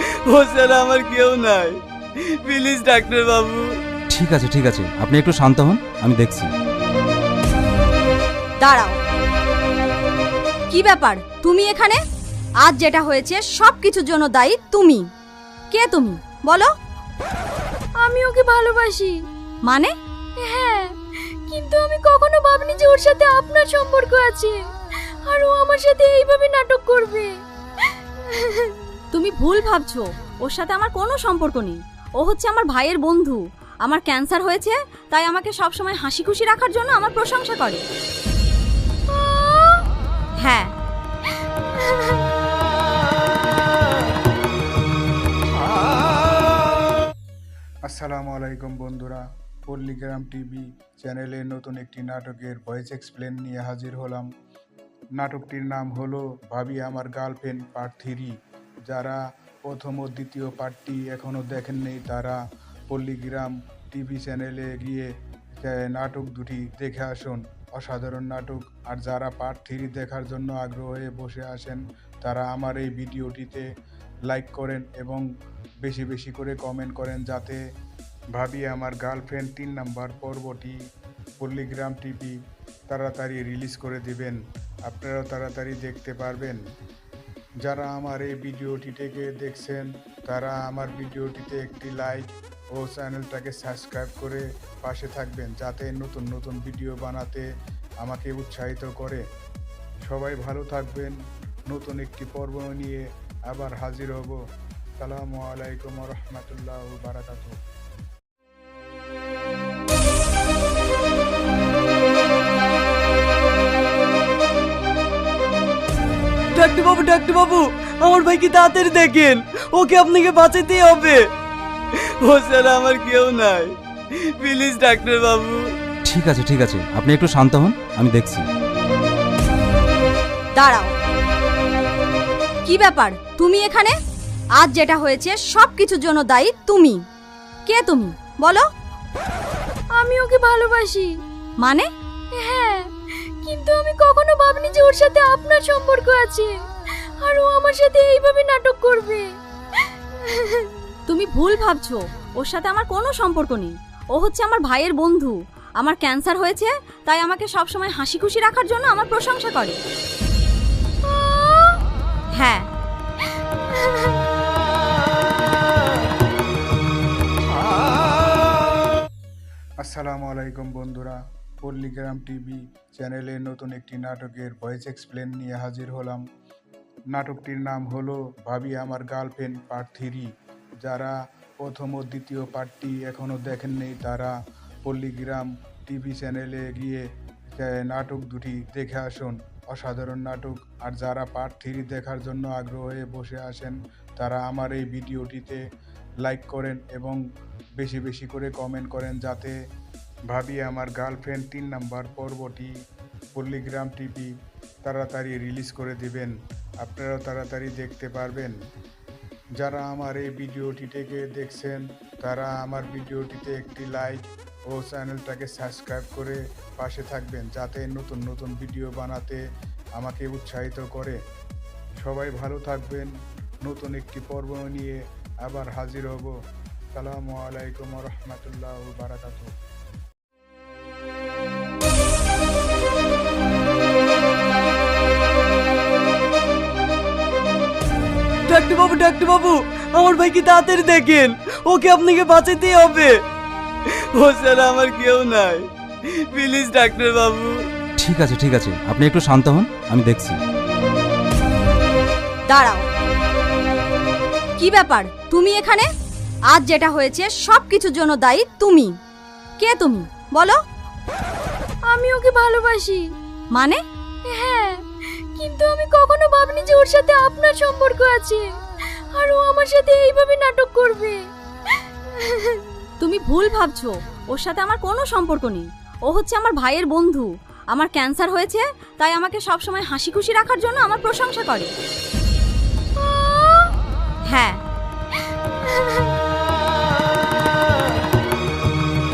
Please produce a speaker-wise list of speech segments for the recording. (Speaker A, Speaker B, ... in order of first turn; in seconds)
Speaker A: 0.3-3.7, 116.5-121.2, 122.0-125.7, 238.5-243.2, 243.9-247.6
Speaker B: 4.1-6.5, 126.0-128.5, 248.0-250.4
Speaker C: 8.6-9.0, 10.7-12.0, 12.6-15.0, 15.7-16.7, 19.7-19.9, 29.1-37.8, 40.4-40.7, 130.6-130.9, 132.7-133.9, 134.6-137.0, 137.7-138.7, 141.6-141.9, 151.1-159.8, 162.4-162.7, 252.5-252.9, 254.6-255.9, 256.5-258.9, 259.6-260.6, 263.5-263.8, 273.0-281.7, 284.3-284.6
Speaker D: 18.0-19.2, 20.4-28.9, 139.9-141.1, 142.3-150.8, 261.9-263.0, 264.3-272.8
Speaker E: 47.9-54.3, 55.2-58.3, 58.9-65.1, 65.6-73.7, 74.3-75.3, 75.8-77.6, 78.3-80.8, 81.4-82.4, 82.9-86.6, 87.6-97.5, 98.0-99.2, 100.0-101.2, 101.7-104.4, 105.0-107.5, 169.8-176.2, 177.1-180.3, 180.8-187.0, 187.6-195.6, 196.2-197.2, 197.8-199.6, 200.3-202.7, 203.3-204.3, 204.8-208.6, 209.6-219.4, 220.0-221.2, 222.0-223.1, 223.6-226.3, 226.9-229.5